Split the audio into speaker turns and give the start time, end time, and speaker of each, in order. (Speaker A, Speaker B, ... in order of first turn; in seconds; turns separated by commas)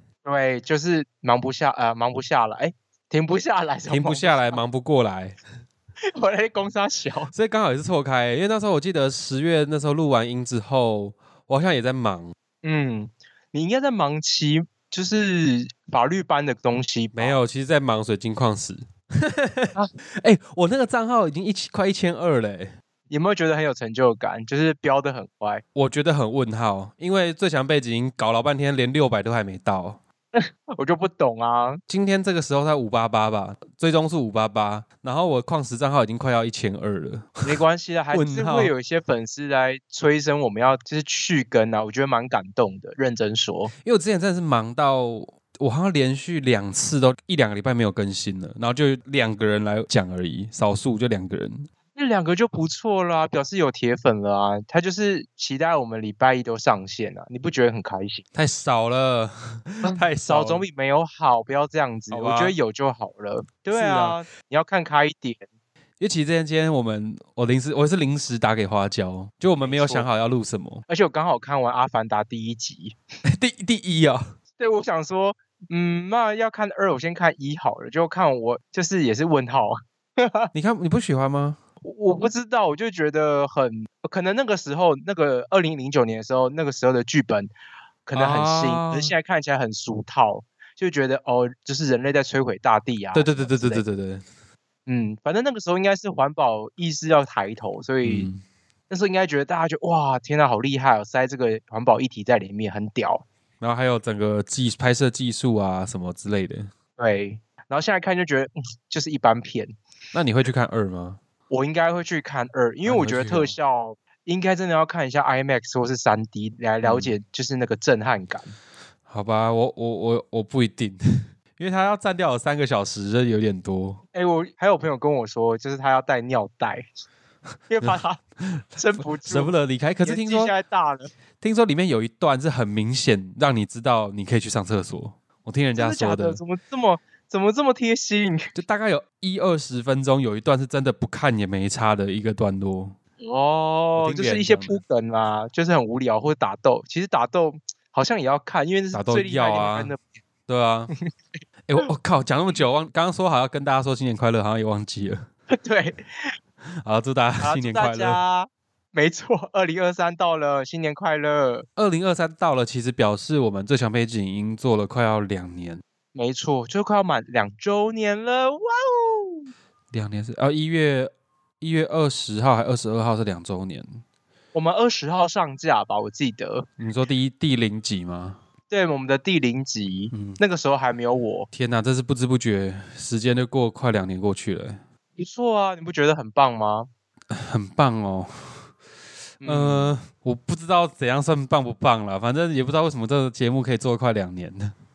Speaker A: 0.2-4.6, Speaker B: 3.9-5.4, Speaker A: 6.2-7.3, Speaker B: 7.3-12.3, Speaker A: 12.6-17.4, Speaker B: 17.1-22.7, Speaker A: 23.1-25.6, Speaker B: 25.8-30.0, Speaker A: 30.3-31.8, Speaker B: 31.9-37.6, Speaker A: 37.4-43.7, Speaker B: 38.1-38.7, Speaker B: 43.8-51.7, Speaker A: 52.0-58.2, Speaker B: 58.3-60.6, Speaker A: 59.8-65.4, Speaker B: 62.1-62.5, Speaker B: 63.7-64.2, Speaker B: 66.0-70.8, Speaker A: 69.6-70.1, Speaker A: 70.9-73.0, Speaker B: 73.3-74.2, Speaker A: 74.6-80.5, Speaker B: 80.5-81.6, Speaker A: 81.8-87.5, Speaker A: 88.1-93.8, Speaker B: 88.2-89.1, Speaker B: 93.1-94.2, Speaker A: 94.9-98.3, Speaker B: 98.0-98.4, Speaker A: 98.9-103.2, Speaker B: 103.6-106.7, Speaker A: 107.0-109.7, Speaker B: 110.1-111.2, Speaker A: 111.5-118.5, Speaker B: 112.8-113.5, Speaker B: 116.8-117.2, Speaker B: 119.1-121.0, Speaker B: 121.6-124.0, Speaker A: 124.1-126.9, Speaker A: 127.7-128.2, Speaker B: 127.8-130.5, Speaker A: 128.8-131.1, Speaker B: 131.4-136.4, Speaker A: 135.8-138.5, Speaker B: 138.6-142.9, Speaker A: 143.2-150.2, Speaker B: 144.0-144.8, Speaker B: 148.9-149.9, Speaker B: 150.5-150.9, Speaker B: 151.7-155.2, Speaker A: 155.5-156.3, Speaker B: 156.8-158.2, Speaker A: 157.4-161.7, Speaker B: 161.8-165.8, Speaker A: 166.2-169.5, Speaker B: 169.9-174.0, Speaker A: 174.5-176.7, Speaker B: 176.8-178.4, Speaker A: 178.7-181.5, Speaker B: 180.1-180.4, Speaker B: 181.5-184.8, Speaker A: 185.2-186.9, Speaker B: 187.3-188.3, Speaker A: 189.4-189.9, Speaker B: 189.4-194.7